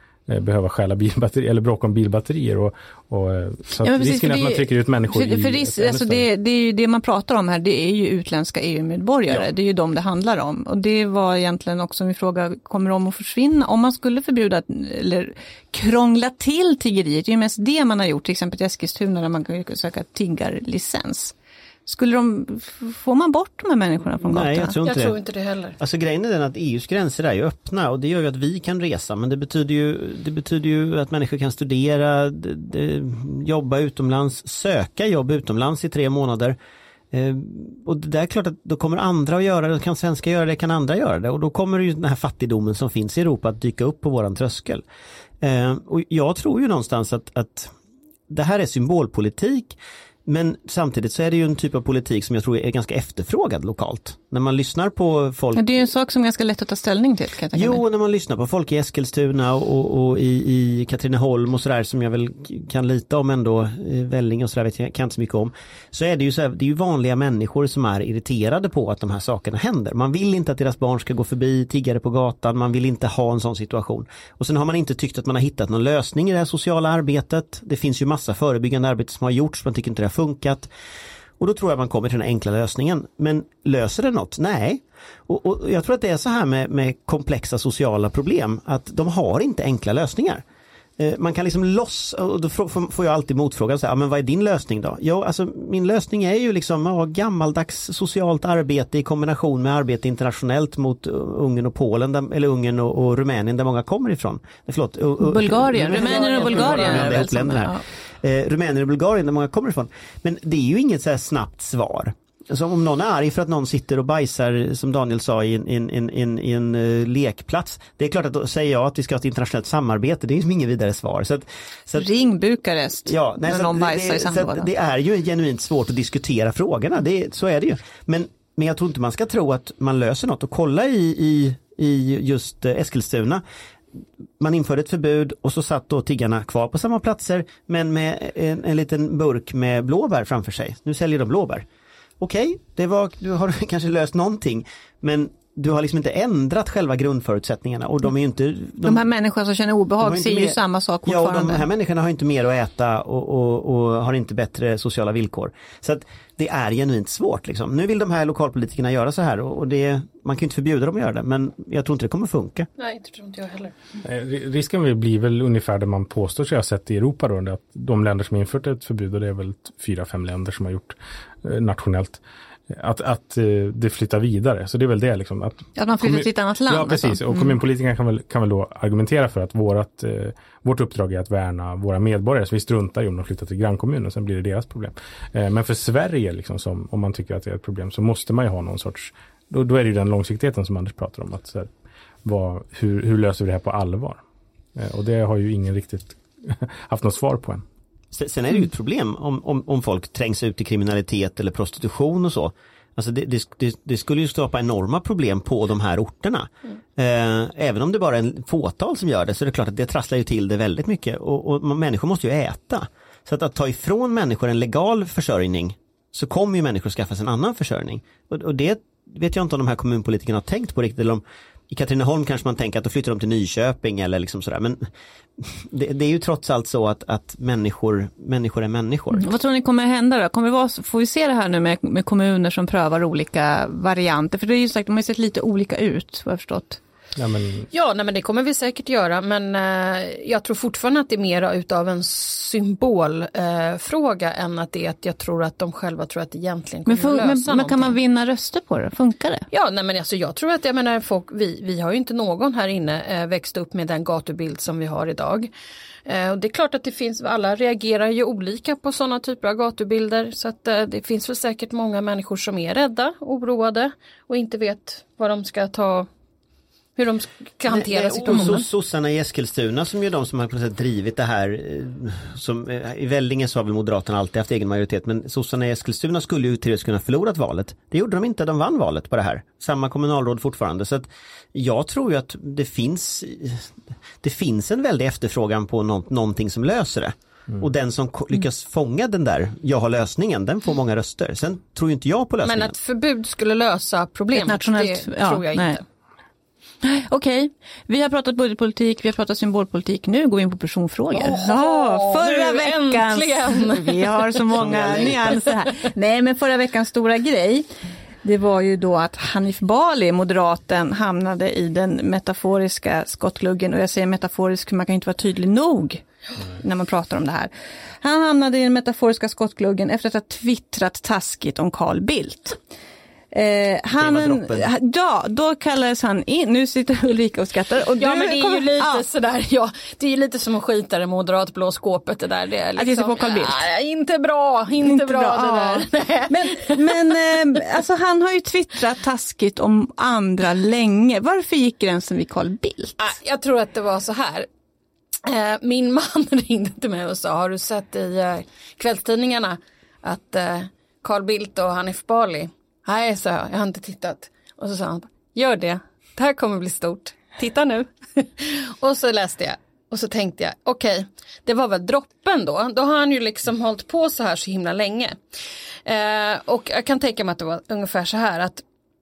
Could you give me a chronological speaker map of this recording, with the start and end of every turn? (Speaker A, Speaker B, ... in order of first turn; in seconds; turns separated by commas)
Speaker A: 0.3-6.3, Speaker B: 3.8-21.3, Speaker B: 21.9-24.7, Speaker C: 24.2-25.2, Speaker D: 24.8-25.8, Speaker C: 25.8-36.6, Speaker C: 37.1-44.8, Speaker C: 45.4-47.7, Speaker C: 48.3-55.9, Speaker B: 55.5-57.8, Speaker C: 57.5-80.7, Speaker C: 81.4-90.4, Speaker C: 91.0-122.1, Speaker B: 105.2-107.8, Speaker D: 105.9-107.3, Speaker B: 122.0-124.7, Speaker C: 123.1-133.4, Speaker C: 134.4-141.7, Speaker C: 142.2-149.1, Speaker B: 148.8-151.7, Speaker C: 150.0-162.7, Speaker D: 162.8-163.7, Speaker A: 164.0-191.7, Speaker B: 175.8-177.6, Speaker A: 192.2-194.2, Speaker A: 194.8-197.6, Speaker C: 198.1-224.8, Speaker C: 225.4-229.3, Speaker B: 229.1-236.8, Speaker A: 237.2-237.7, Speaker D: 237.7-247.9, Speaker B: 246.9-249.4, Speaker D: 249.5-255.5, Speaker D: 256.1-266.1, Speaker D: 267.0-268.7, Speaker C: 267.7-292.7, Speaker D: 292.4-295.8, Speaker B: 294.4-295.8, Speaker B: 296.8-307.7, Speaker D: 301.1-304.3, Speaker C: 304.6-305.4, Speaker B: 308.2-316.0, Speaker B: 316.6-317.5, Speaker B: 318.0-322.6, Speaker B: 323.3-329.0, Speaker C: 324.0-324.7, Speaker D: 328.0-337.2, Speaker B: 332.8-333.6, Speaker B: 334.8-343.0, Speaker D: 343.0-344.5, Speaker D: 345.2-365.2, Speaker D: 365.9-368.6